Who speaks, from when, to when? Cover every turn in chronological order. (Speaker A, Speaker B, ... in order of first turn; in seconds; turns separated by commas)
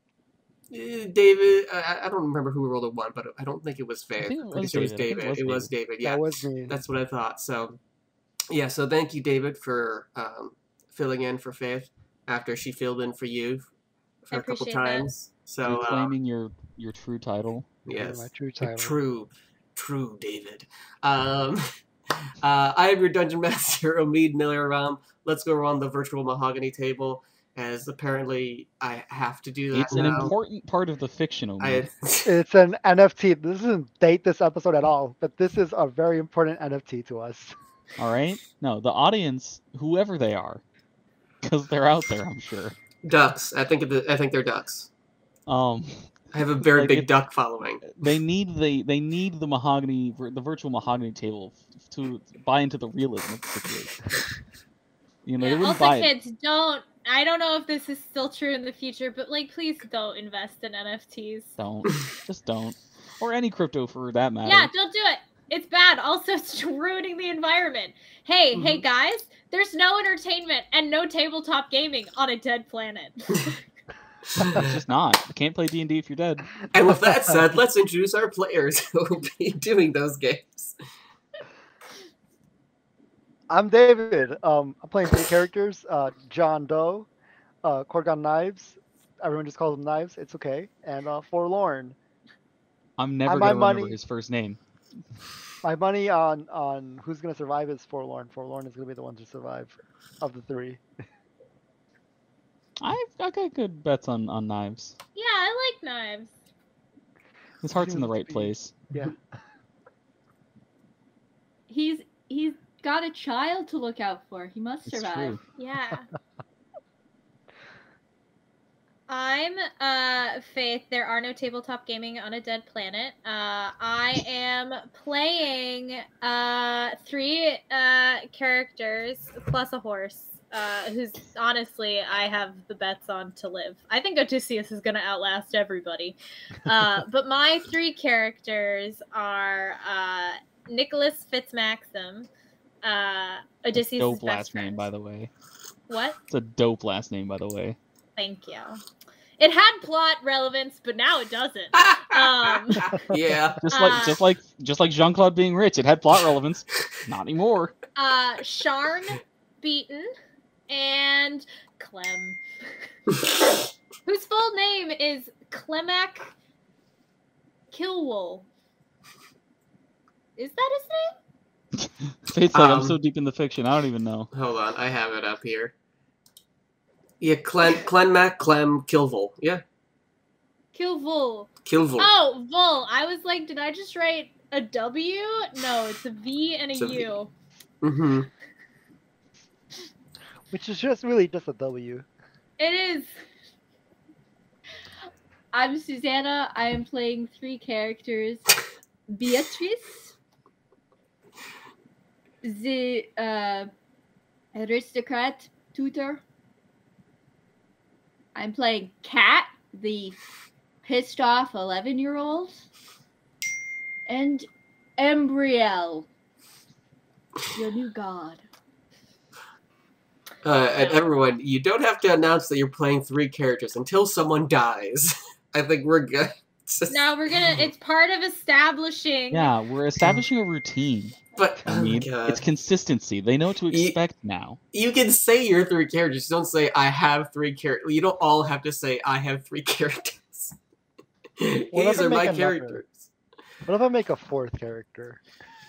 Speaker A: 0.7-7.8, Speaker B: 4.2-5.7, Speaker C: 6.0-6.8, Speaker A: 8.5-13.7, Speaker A: 14.2-16.1, Speaker D: 14.3-15.1, Speaker B: 15.6-17.7, Speaker A: 17.9-21.7, Speaker C: 17.9-19.0, Speaker A: 22.4-30.4, Speaker B: 29.7-31.9, Speaker A: 31.6-32.3, Speaker C: 32.3-37.5, Speaker B: 38.0-40.6, Speaker B: 41.4-42.8, Speaker A: 43.0-44.9, Speaker B: 45.5-47.1, Speaker A: 46.3-47.9, Speaker B: 47.9-54.1, Speaker B: 55.3-56.1, Speaker D: 55.4-61.5, Speaker B: 61.6-64.7, Speaker D: 64.5-73.6, Speaker A: 68.5-68.8, Speaker A: 74.3-74.7, Speaker B: 74.4-76.7, Speaker A: 76.7-80.8, Speaker C: 83.5-87.1, Speaker C: 87.6-92.0, Speaker B: 93.0-94.6, Speaker C: 93.3-94.0, Speaker C: 95.6-100.8, Speaker B: 102.8-105.0, Speaker D: 105.2-106.3, Speaker B: 107.6-108.8, Speaker C: 107.8-109.2, Speaker E: 111.7-115.4, Speaker B: 114.9-115.4, Speaker D: 115.6-116.1, Speaker D: 119.1-142.3, Speaker D: 142.8-144.9, Speaker B: 144.0-145.3, Speaker D: 145.9-146.2, Speaker B: 146.3-147.8, Speaker D: 148.2-148.8, Speaker D: 149.4-153.0, Speaker A: 151.8-153.6, Speaker B: 153.6-157.8, Speaker D: 153.7-154.2, Speaker D: 157.9-160.1, Speaker D: 160.7-162.4, Speaker D: 164.1-166.3, Speaker D: 167.7-168.5, Speaker D: 170.4-171.2, Speaker B: 171.8-174.3, Speaker A: 172.5-173.0, Speaker A: 174.3-175.7, Speaker A: 177.2-179.6, Speaker D: 180.7-187.3, Speaker A: 181.7-182.1, Speaker A: 186.8-187.1, Speaker A: 187.8-188.3, Speaker C: 190.5-192.1, Speaker D: 192.6-193.2, Speaker E: 195.5-200.2, Speaker E: 202.4-203.7, Speaker E: 204.5-206.2, Speaker E: 208.3-210.2, Speaker E: 210.8-212.7, Speaker E: 214.1-216.1, Speaker E: 217.5-218.4, Speaker A: 220.4-227.7, Speaker D: 226.9-229.5, Speaker B: 229.3-234.6, Speaker A: 231.4-232.4, Speaker A: 233.7-234.0, Speaker A: 234.7-240.6, Speaker A: 241.4-243.1, Speaker C: 241.7-242.8, Speaker C: 243.7-245.2